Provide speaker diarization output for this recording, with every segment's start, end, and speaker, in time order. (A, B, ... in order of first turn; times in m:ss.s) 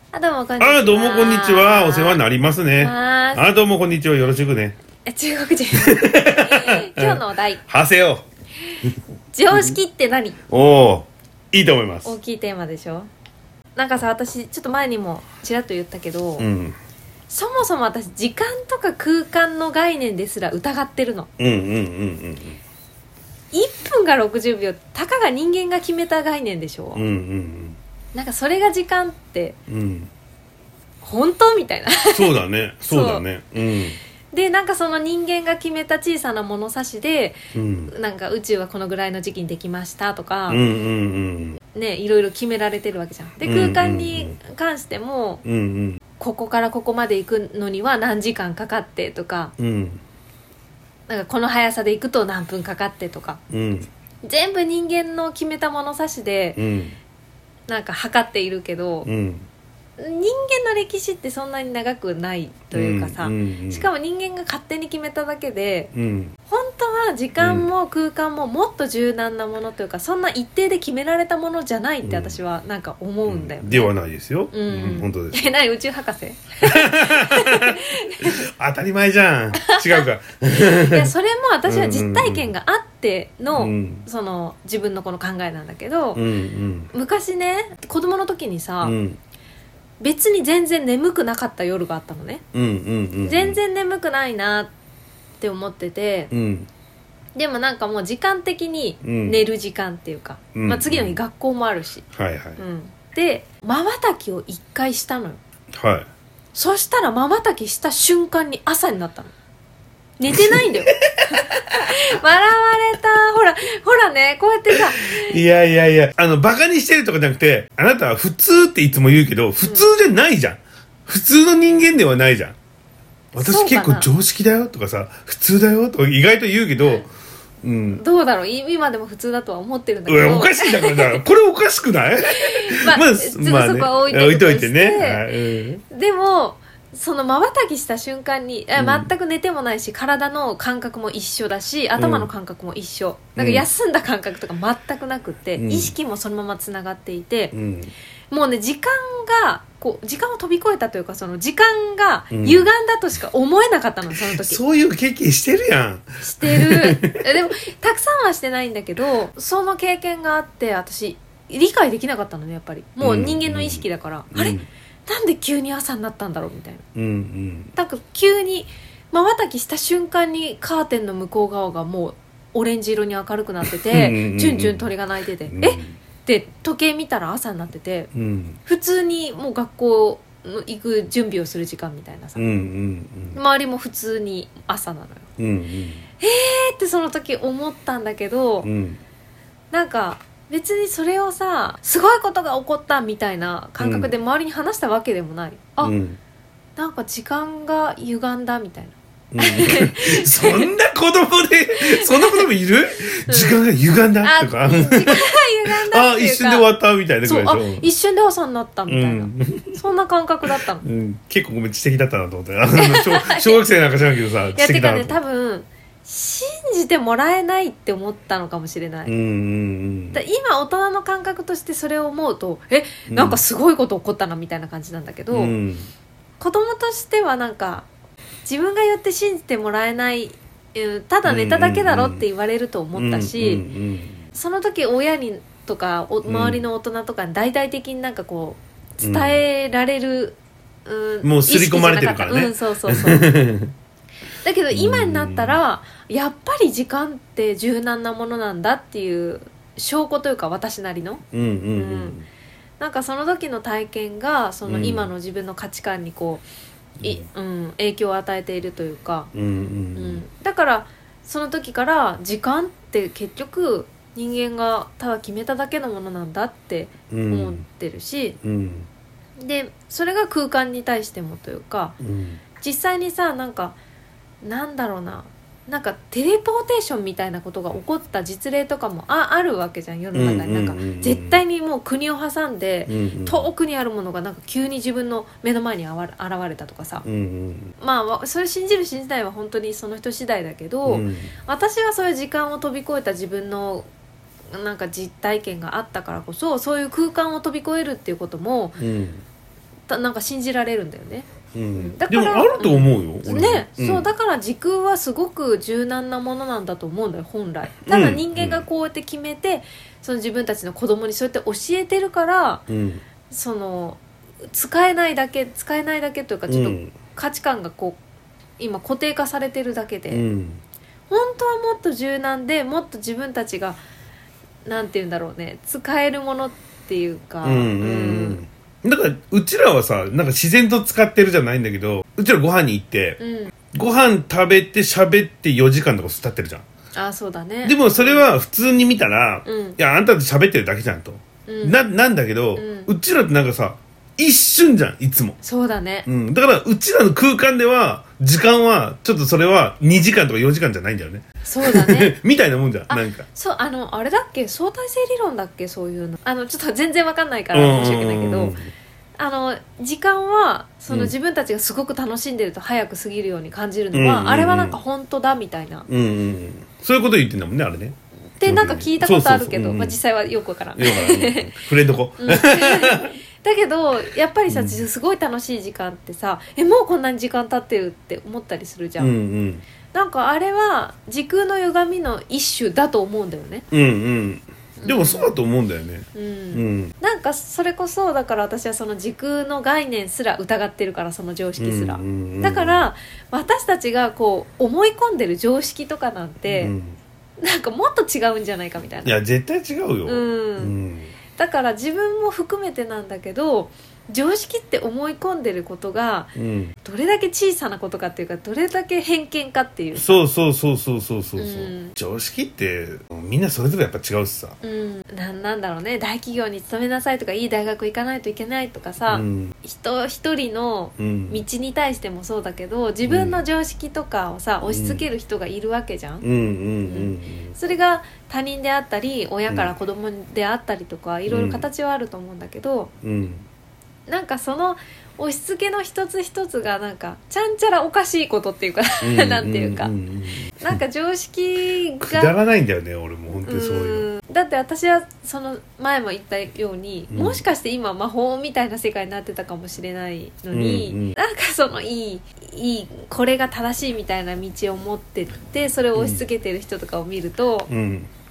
0:00.1-0:02.2 A
0:00.6-0:04.8 B
0:02.8-0:03.5 A
0:05.0-0:07.6 A
0:05.7-0:08.2 B
0:09.3-0:10.4 A
0:09.5-0:09.8 B
0:10.5-0:12.1 B
0:12.0-0:13.1 A
0:13.8-0:16.5 A
0:16.4-0:16.8 B
0:17.3-0:21.3 A
0:21.4-0:22.6 B
0:23.5-0:27.0 A
0:27.0-0:27.8 B
0:28.1-0:29.6 A
0:29.7-0:30.1 B
0:31.0-0:32.3 A
0:32.1-0:34.0 B
0:32.8-0:33.2 A
0:34.3-0:37.4 A
0:37.5-0:37.9 B
0:37.9-0:40.7 A
0:40.5-0:41.6 B
0:41.7-0:45.4 A
0:43.4-0:44.4 B
0:45.4-0:46.0 B
0:46.2-0:49.5 A
0:49.6-0:50.0 B
0:51.1-0:53.4 A
0:53.5-0:53.9 B
0:54.2-0:56.6 A
0:56.6-0:57.0 B
0:57.7-0:59.1 A
0:59.0-0:59.5 B
1:00.0-1:05.9 A
1:02.7-1:03.9 B
1:05.9-1:06.3 B
1:06.5-1:13.9 A
1:07.4-1:07.7 B
1:12.0-1:12.4 B
1:13.3-1:15.5 B
1:14.5-1:18.4 A
1:16.6-1:21.1 B
1:19.6-1:26.2 A
1:21.7-1:22.5 B
1:23.5-1:24.1 B
1:26.2-1:26.9 B
1:26.9-1:29.0 A
1:28.8-1:29.2 B
1:30.0-1:32.4 A
1:32.5-1:33.6 B
1:33.2-1:34.7 A
1:35.4-1:36.3 A
1:36.3-1:36.7 B
1:37.4-1:42.1 A
1:39.0-1:39.4 B
1:40.6-1:41.2 B
1:42.1-1:42.6 B
1:42.6-1:45.4 A
1:45.7-1:46.1 B
1:46.6-1:49.3 A
1:50.2-1:55.4 A
1:50.3-1:50.7 B
1:51.3-1:51.6 B
1:54.7-2:02.6 B
2:03.3-2:04.1 A
2:03.4-2:07.1 B
2:07.6-2:08.0 B
2:07.9-2:11.2 A
2:10.1-2:15.8 B
2:12.4-2:15.4 A
2:15.9-2:27.5 A
2:18.8-2:19.1 B
2:22.0-2:22.3 B
2:23.4-2:23.7 B
2:25.6-2:25.9 B
2:27.5-2:27.9 B
2:28.3-2:34.6 A
2:32.3-2:32.7 B
2:34.2-2:37.3 B
2:36.2-2:46.8 A
2:43.0-2:44.7 B
2:47.0-2:47.7 B
2:47.8-2:58.1 A
2:53.9-2:54.9 B
2:55.5-2:56.0 B
2:58.1-2:58.6 B
2:58.6-3:02.6 A
3:02.4-3:03.4 B
3:03.3-3:05.3 A
3:05.4-3:06.0 B
3:06.2-3:08.7 A
3:08.6-3:09.0 B
3:09.7-3:15.9 A
3:13.8-3:14.1 B
3:15.8-3:16.2 B
3:16.8-3:20.7 A
3:19.3-3:27.9 B
3:21.8-3:22.5 A
3:23.2-3:23.6 A
3:24.2-3:26.7 A
3:27.2-3:30.8 A
3:28.9-3:29.8 B
3:30.8-3:35.2 B
3:32.8-3:33.6 A
3:34.5-3:39.1 A
3:39.1-3:40.2 B
3:40.1-3:45.6 A
3:43.1-3:43.4 B
3:45.3-3:45.9 B
3:46.4-3:47.9 A
3:48.5-3:53.6 A
3:51.2-3:52.2 B
3:52.9-3:54.2 B
3:54.3-4:03.4 A
3:56.3-3:56.6 B
3:59.0-3:59.4 B
4:01.2-4:03.7 B
4:04.4-4:11.2 A
4:04.7-4:05.6 B
4:11.3-4:12.3 B
4:11.7-4:12.2 A
4:12.8-4:16.4 A
4:14.7-4:15.1 B
4:17.0-4:17.2 B
4:17.0-4:19.3 A
4:19.3-4:20.2 B
4:19.9-4:28.4 A
4:27.1-4:27.6 B
4:28.4-4:28.9 B
4:29.4-4:32.0 A
4:32.0-4:32.4 B
4:32.6-4:33.8 A
4:34.4-4:47.0 A
4:40.1-4:41.4 B
4:42.9-4:43.5 B
4:47.0-4:47.7 B
4:47.8-4:53.9 A
4:50.9-4:51.3 B
4:54.5-4:58.8 A
4:58.8-4:59.2 B
4:59.9-5:12.6 A
5:01.5-5:04.1 B
5:07.9-5:08.6 B
5:12.7-5:13.0 B
5:13.3-5:18.0 A
5:16.5-5:17.0 B
5:18.6-5:20.2 A
5:20.1-5:20.6 B
5:21.1-5:23.8 A
5:24.7-5:28.4 A
5:27.4-5:33.2 B
5:33.2-5:33.5 A
5:33.7-5:36.7 B
5:36.9-5:38.3 A
5:37.6-5:45.4 B
5:39.4-5:39.8 A
5:41.5-5:41.8 A
5:42.6-5:42.9 A
5:45.4-5:46.1 A
5:46.1-5:53.3 B
5:51.4-5:52.2 A
5:52.9-5:58.6 A
5:57.5-5:58.7 B
5:59.2-6:05.9 A
6:00.9-6:01.1 B
6:03.9-6:04.8 B
6:05.9-6:10.0 B
6:08.4-6:11.5 A
6:10.8-6:13.2 B
6:12.2-6:19.1 A
6:14.5-6:14.8 B
6:19.0-6:19.6 B
6:19.9-6:23.7 A
6:23.7-6:26.9 B
6:24.8-6:25.4 A
6:26.1-6:36.7 A
6:31.6-6:32.9 B
6:36.5-6:37.0 B
6:37.4-6:39.2 A
6:39.0-6:41.1 B
6:40.1-6:40.8 A
6:41.4-6:50.1 A
6:46.4-6:46.8 B
6:50.0-6:54.6 B
6:51.4-6:52.0 A
6:54.6-7:06.2 A
6:59.1-6:59.5 B
7:01.0-7:01.4 B
7:03.0-7:03.4 B
7:04.7-7:05.1 B
7:06.2-7:07.6 B
7:06.8-7:12.9 A
7:11.3-7:11.7 B
7:13.0-7:13.5 B
7:14.1-7:19.9 A
7:19.0-7:20.8 B
7:20.6-7:22.3 A
7:22.0-7:24.1 B
7:23.4-7:37.7 A
7:27.1-7:27.4 B
7:30.5-7:31.2 B
7:36.0-7:36.2 B
7:37.7-7:38.1 B